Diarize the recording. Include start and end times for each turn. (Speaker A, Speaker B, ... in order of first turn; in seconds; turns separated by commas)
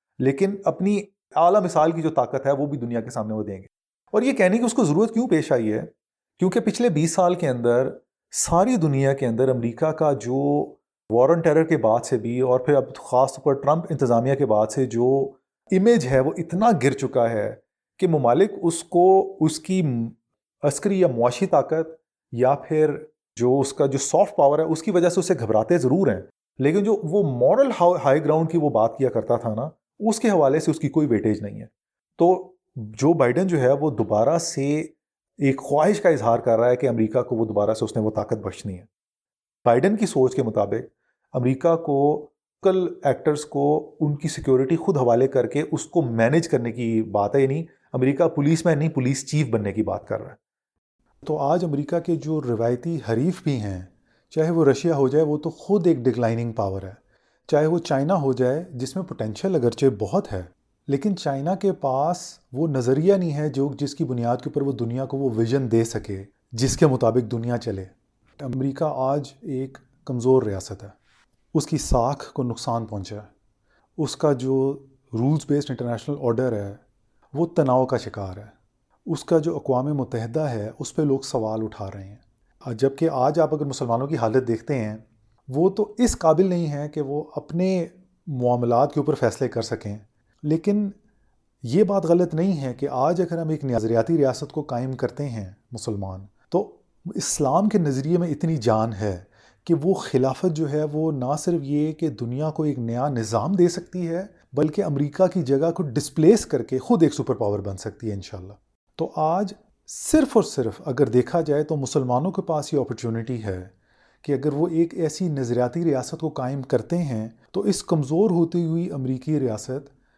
Speaker A: 0.2-38.9, Speaker A: 39.6-50.4, Speaker A: 51.2-71.0, Speaker A: 71.5-73.3, Speaker A: 74.0-76.8, Speaker A: 77.3-78.5, Speaker A: 79.1-90.9, Speaker A: 91.6-113.7, Speaker A: 114.2-119.9